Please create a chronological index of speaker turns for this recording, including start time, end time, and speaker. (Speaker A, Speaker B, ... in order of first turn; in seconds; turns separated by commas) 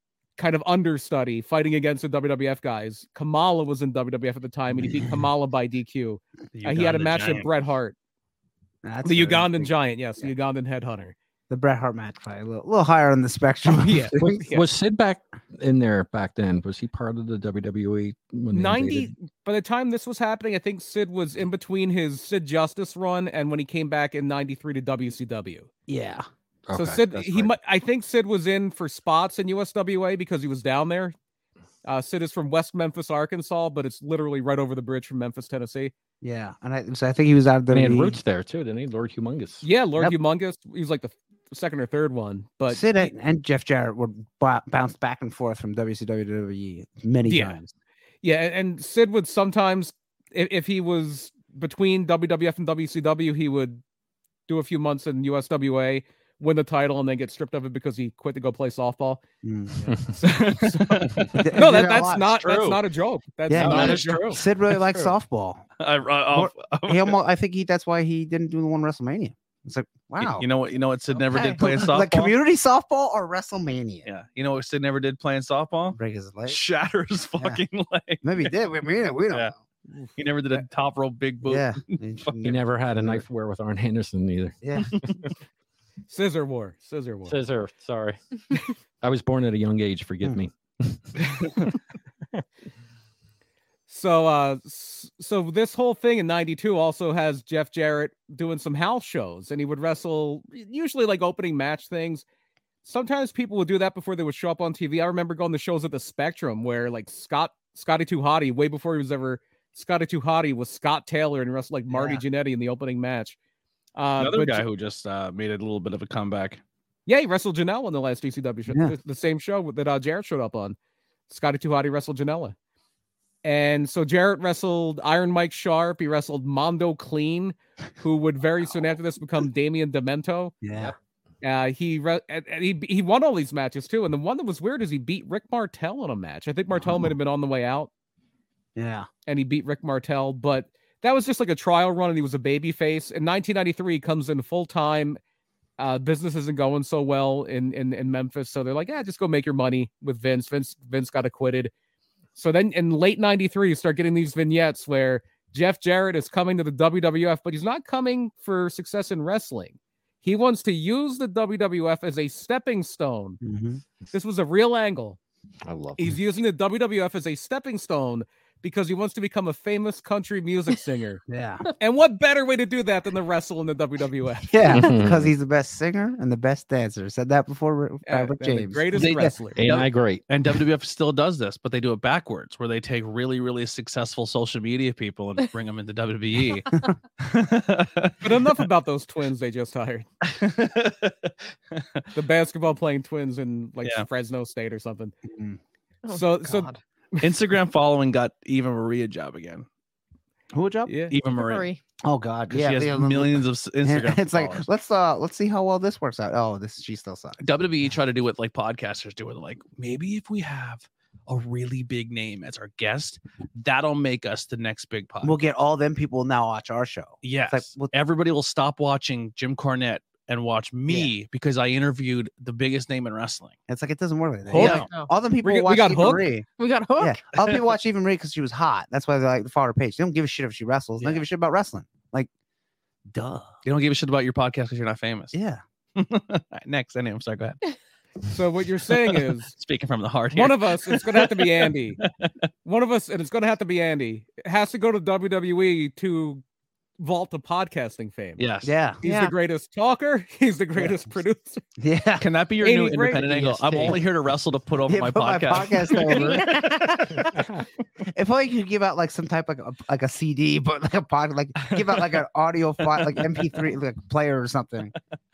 Speaker A: 0.4-7.9, Speaker B: 4.8-5.1, Speaker C: 6.5-7.5, Speaker B: 8.8-10.3, Speaker A: 9.0-11.1, Speaker B: 11.5-14.5, Speaker A: 13.7-14.7, Speaker D: 14.5-19.1, Speaker A: 18.5-25.7, Speaker B: 25.9-26.2, Speaker D: 26.7-27.5, Speaker A: 26.7-31.1, Speaker A: 31.8-35.9, Speaker B: 36.2-38.2, Speaker D: 37.7-39.6, Speaker A: 39.6-43.1, Speaker B: 42.7-47.7, Speaker A: 47.2-47.6, Speaker A: 48.2-53.8, Speaker A: 54.5-59.2, Speaker B: 59.4-59.9, Speaker A: 59.8-64.4, Speaker C: 60.2-61.4, Speaker B: 61.4-62.4, Speaker D: 62.4-62.8, Speaker B: 63.5-65.7, Speaker D: 63.5-64.4, Speaker C: 63.6-64.2, Speaker C: 65.8-67.2, Speaker B: 66.3-70.5, Speaker C: 70.2-72.3, Speaker B: 71.3-74.1, Speaker C: 74.0-78.5, Speaker B: 75.9-76.6, Speaker B: 78.2-79.5, Speaker C: 80.2-82.3, Speaker B: 81.4-83.2, Speaker D: 82.4-84.6, Speaker B: 84.6-85.0, Speaker A: 86.1-87.3, Speaker D: 87.2-91.7, Speaker A: 93.9-102.2, Speaker A: 102.8-113.3, Speaker B: 111.9-112.2, Speaker A: 114.0-114.6, Speaker C: 114.2-116.6, Speaker A: 117.1-120.8, Speaker B: 118.7-118.9, Speaker A: 121.3-122.5, Speaker A: 123.4-130.5, Speaker B: 130.6-130.9, Speaker A: 131.4-137.9, Speaker B: 136.8-137.1, Speaker B: 138.8-139.1, Speaker A: 139.2-145.2, Speaker A: 145.8-151.7, Speaker A: 152.3-163.4, Speaker B: 163.4-163.8, Speaker A: 164.1-165.2, Speaker D: 165.7-166.2, Speaker A: 166.0-171.2, Speaker B: 171.3-171.7, Speaker A: 171.8-174.8, Speaker B: 174.5-179.3, Speaker D: 174.7-175.3, Speaker A: 178.1-179.6, Speaker C: 178.9-188.3, Speaker D: 179.6-180.2, Speaker A: 188.2-190.1, Speaker C: 190.2-192.0, Speaker A: 192.1-195.1, Speaker B: 195.2-195.6, Speaker E: 196.0-196.8, Speaker A: 196.1-197.3, Speaker C: 197.2-199.7, Speaker B: 200.5-200.9, Speaker A: 200.9-201.1, Speaker C: 201.1-201.6, Speaker E: 201.3-201.8, Speaker B: 202.0-207.4, Speaker C: 202.5-204.7, Speaker C: 207.4-215.4, Speaker B: 215.2-217.9, Speaker C: 217.2-223.5, Speaker B: 223.7-226.5, Speaker A: 224.5-224.9, Speaker C: 224.5-224.9, Speaker E: 224.6-225.1, Speaker A: 225.4-226.3, Speaker E: 226.6-227.2, Speaker B: 227.0-232.3, Speaker B: 233.1-233.5, Speaker C: 233.6-235.3, Speaker B: 235.3-235.6, Speaker C: 235.9-237.6, Speaker A: 238.3-239.5, Speaker C: 239.5-242.3, Speaker A: 240.3-242.0, Speaker A: 242.6-246.4, Speaker A: 247.0-248.4, Speaker C: 248.4-248.7, Speaker B: 248.6-249.0, Speaker A: 249.0-251.6, Speaker E: 249.0-249.3, Speaker B: 251.8-252.2, Speaker C: 252.2-256.5, Speaker A: 252.6-253.9, Speaker D: 253.7-254.0, Speaker B: 254.8-257.4, Speaker E: 256.0-257.4, Speaker B: 258.0-264.9, Speaker C: 261.7-262.0, Speaker C: 263.1-263.4